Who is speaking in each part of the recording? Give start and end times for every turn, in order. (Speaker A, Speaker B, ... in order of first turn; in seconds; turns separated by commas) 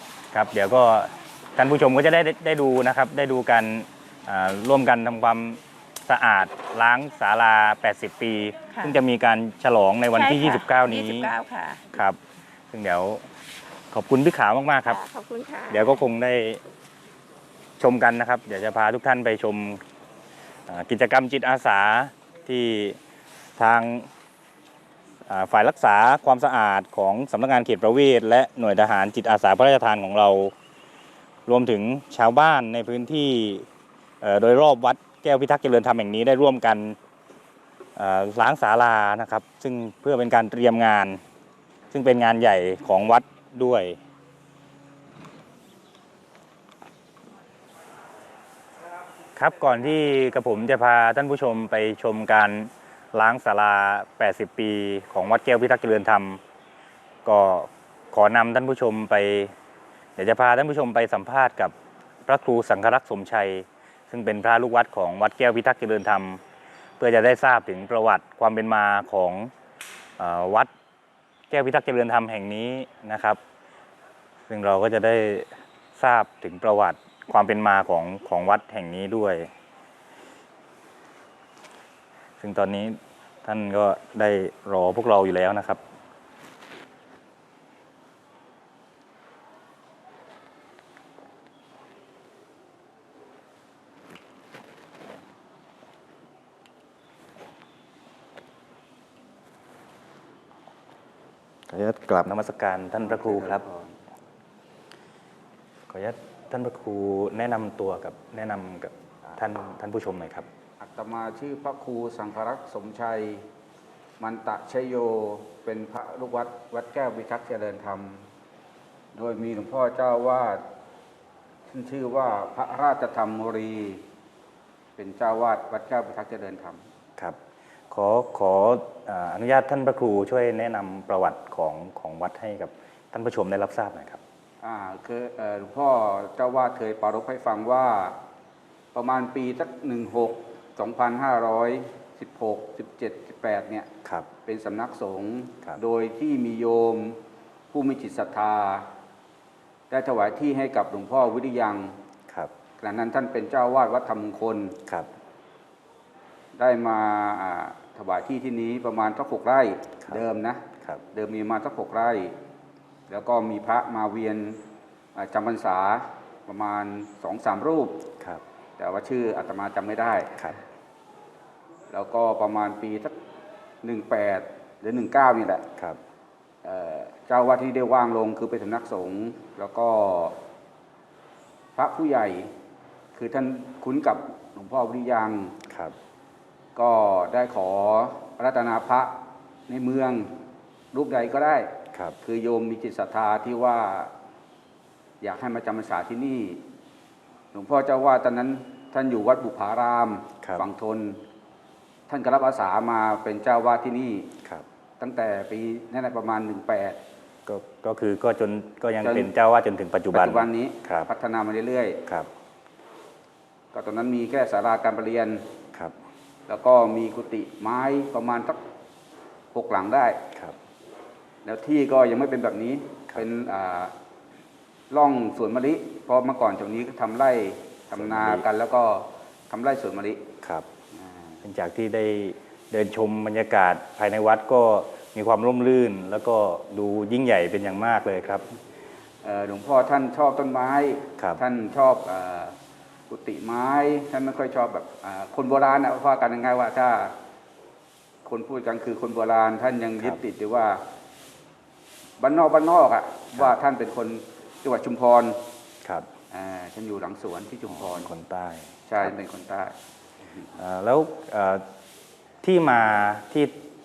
Speaker A: 0.3-11.3, Speaker B: 8.7-9.0, Speaker B: 10.1-11.9, Speaker A: 11.9-12.2, Speaker A: 12.7-13.2, Speaker A: 13.9-15.0, Speaker B: 14.8-16.0, Speaker A: 15.7-16.6, Speaker A: 17.8-19.8, Speaker A: 20.7-23.0, Speaker A: 23.6-24.1, Speaker A: 25.3-30.5, Speaker A: 31.5-33.6, Speaker A: 34.2-37.0, Speaker A: 38.0-41.2, Speaker A: 41.9-44.0, Speaker A: 49.4-56.4, Speaker A: 57.2-59.5, Speaker A: 60.1-61.7, Speaker A: 62.2-66.4, Speaker A: 67.0-69.5, Speaker A: 70.2-70.7, Speaker A: 71.5-73.4, Speaker A: 74.5-79.5, Speaker A: 82.4-85.8, Speaker A: 101.7-103.6, Speaker C: 103.0-103.9, Speaker A: 105.9-110.5, Speaker C: 110.8-113.5, Speaker C: 114.2-118.2, Speaker C: 119.1-120.6, Speaker C: 121.7-124.0, Speaker C: 125.0-126.8, Speaker A: 127.9-134.2, Speaker C: 134.6-138.2, Speaker C: 138.9-143.9, Speaker C: 144.4-147.2, Speaker C: 147.7-148.9, Speaker C: 149.9-152.0, Speaker C: 152.8-154.8, Speaker C: 156.6-162.3, Speaker C: 163.1-164.6, Speaker C: 165.1-168.1, Speaker C: 168.8-170.4, Speaker C: 171.9-173.2, Speaker C: 173.8-175.7, Speaker C: 176.6-180.4, Speaker C: 181.8-182.5, Speaker C: 183.1-185.6, Speaker A: 185.7-185.9, Speaker C: 186.8-190.3, Speaker C: 190.9-194.1, Speaker C: 195.2-196.6, Speaker C: 197.5-201.2, Speaker C: 202.1-204.3, Speaker C: 205.0-207.0, Speaker A: 207.4-211.1, Speaker C: 209.0-209.3, Speaker C: 210.1-212.0, Speaker C: 213.7-215.5, Speaker C: 216.5-218.6, Speaker C: 219.5-220.2, Speaker C: 221.4-223.9, Speaker C: 224.9-230.3, Speaker A: 227.9-228.4, Speaker A: 231.4-238.4, Speaker C: 239.2-242.6, Speaker C: 243.1-247.2, Speaker C: 248.2-250.8, Speaker C: 252.2-255.4, Speaker C: 256.3-258.1, Speaker A: 257.7-259.1, Speaker C: 258.9-259.7, Speaker A: 260.6-261.6, Speaker A: 262.4-263.6